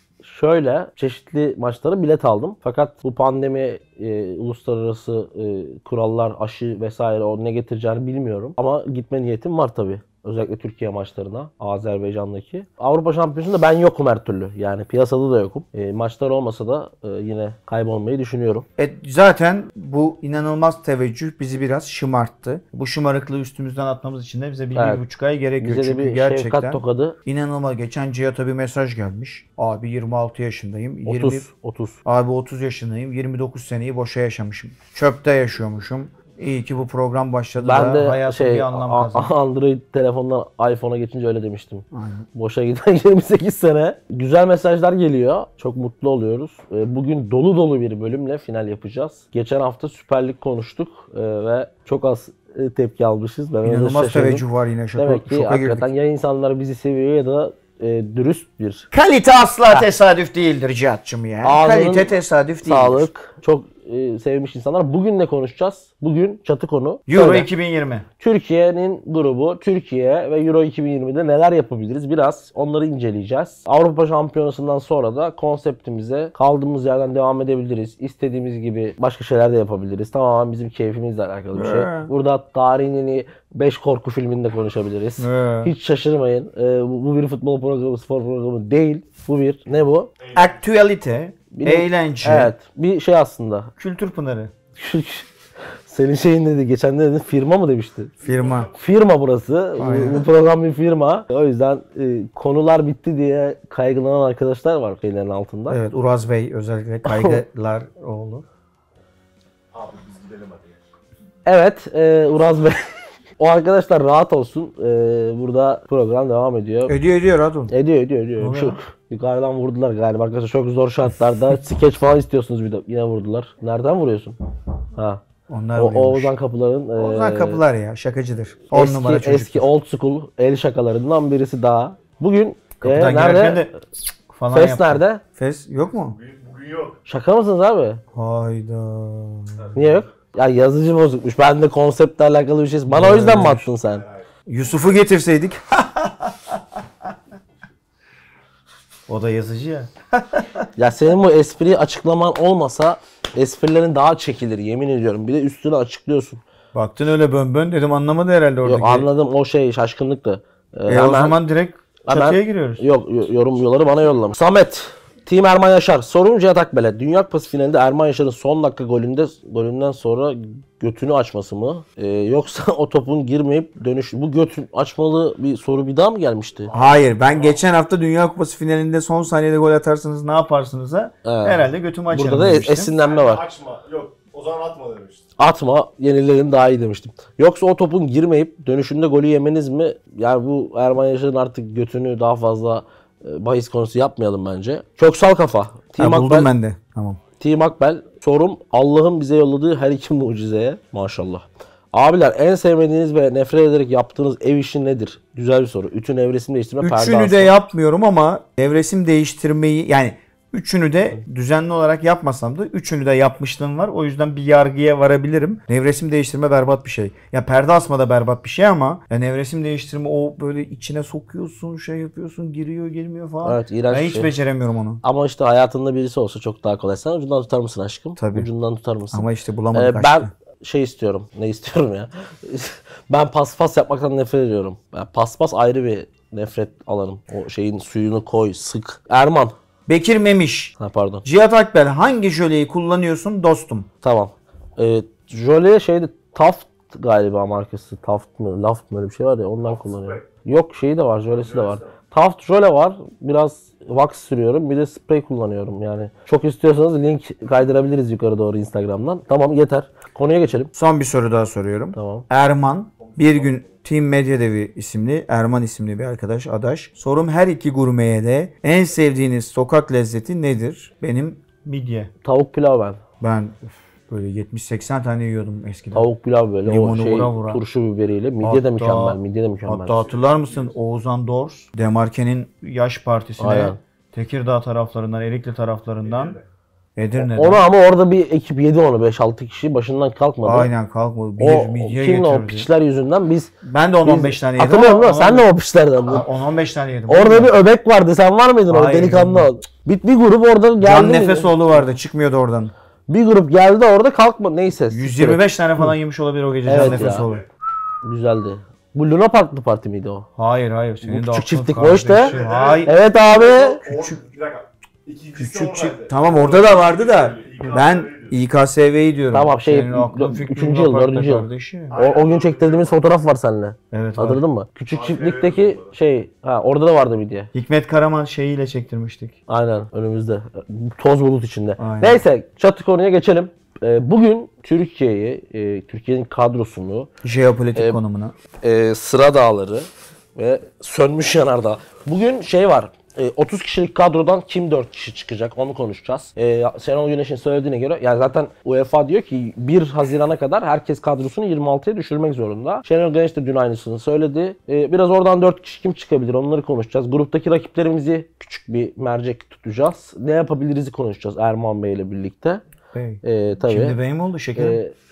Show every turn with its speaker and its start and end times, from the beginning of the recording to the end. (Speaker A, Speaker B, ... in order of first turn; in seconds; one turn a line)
Speaker A: 0.2-18.6
Speaker B: 18.8-31.4
Speaker A: 24.7-25.0
Speaker A: 25.6-27.2
Speaker A: 31.1-32.0
Speaker B: 32.0-39.3
Speaker A: 37.6-54.4
Speaker B: 41.9-42.2
Speaker B: 53.6-55.9
Speaker A: 55.0-58.9
Speaker B: 58.9-63.1
Speaker A: 61.4-62.1
Speaker A: 62.6-67.5
Speaker B: 67.1-68.0
Speaker A: 68.2-90.1
Speaker B: 81.5-82.1
Speaker B: 85.2-85.7
Speaker C: 90.2-90.6
Speaker B: 90.3-92.5
Speaker A: 91.5-93.7
Speaker B: 93.8-94.5
Speaker A: 94.8-95.3
Speaker A: 95.9-98.1
Speaker C: 98.2-98.7
Speaker B: 98.2-98.7
Speaker A: 98.7-105.8
Speaker B: 99.8-100.2
Speaker B: 105.7-108.5
Speaker A: 107.0-107.4
Speaker C: 109.7-110.8
Speaker A: 111.5-112.8
Speaker A: 113.4-117.0
Speaker B: 116.8-117.7
Speaker A: 117.7-124.3
Speaker B: 118.4-118.8
Speaker A: 125.0-125.2
Speaker B: 125.5-126.3
Speaker A: 125.8-127.6
Speaker B: 127.0-129.7
Speaker A: 128.7-133.7
Speaker B: 132.8-133.7
Speaker B: 134.3-136.2
Speaker A: 134.5-135.2
Speaker C: 135.9-137.0
Speaker A: 137.1-138.0
Speaker B: 138.1-140.0
Speaker A: 139.7-144.0
Speaker B: 142.9-143.7
Speaker C: 143.8-144.2
Speaker B: 144.5-146.6
Speaker B: 149.1-150.6
Speaker A: 150.8-156.4
Speaker B: 156.7-159.1
Speaker A: 158.6-161.4
Speaker B: 160.9-162.8
Speaker A: 162.1-176.7
Speaker C: 176.7-177.6
Speaker B: 176.7-182.9
Speaker A: 181.2-183.4
Speaker C: 183.0-185.2
Speaker A: 185.4-196.5
Speaker B: 196.0-197.2
Speaker A: 197.4-207.5
Speaker B: 206.8-225.0
Speaker A: 223.4-224.3
Speaker A: 225.0-239.5
Speaker B: 228.2-228.5
Speaker B: 229.1-230.3
Speaker B: 239.9-240.7
Speaker A: 240.8-241.2
Speaker B: 241.2-243.9
Speaker A: 244.0-260.7
Speaker C: 249.6-250.2
Speaker C: 251.3-251.9
Speaker B: 260.7-272.1
Speaker A: 261.9-262.2
Speaker C: 263.0-263.8
Speaker A: 272.2-273.0
Speaker B: 273.2-276.1
Speaker A: 275.9-280.0
Speaker B: 276.6-277.6
Speaker B: 278.4-286.4
Speaker C: 280.1-280.7
Speaker A: 283.4-283.8
Speaker C: 286.1-286.4
Speaker B: 286.9-287.6
Speaker A: 287.1-290.7
Speaker B: 290.4-292.7
Speaker A: 291.4-293.5
Speaker B: 293.6-295.5
Speaker A: 294.0-296.3
Speaker B: 296.1-297.6
Speaker A: 297.1-301.8
Speaker B: 298.7-299.5
Speaker B: 300.8-302.7
Speaker A: 303.1-305.9
Speaker B: 304.9-307.4
Speaker A: 306.6-307.3
Speaker C: 306.7-307.4
Speaker A: 308.0-310.3
Speaker B: 310.4-312.9
Speaker A: 311.0-313.8
Speaker C: 312.1-318.4
Speaker B: 313.9-314.2
Speaker B: 315.4-321.9
Speaker A: 319.3-327.5
Speaker C: 321.9-323.0
Speaker B: 323.9-324.4
Speaker C: 324.9-325.9
Speaker B: 327.5-329.4
Speaker A: 329.5-337.1
Speaker B: 331.8-332.2
Speaker B: 337.2-338.3
Speaker A: 338.6-362.6
Speaker B: 362.9-364.8
Speaker A: 363.2-364.0
Speaker A: 364.6-364.9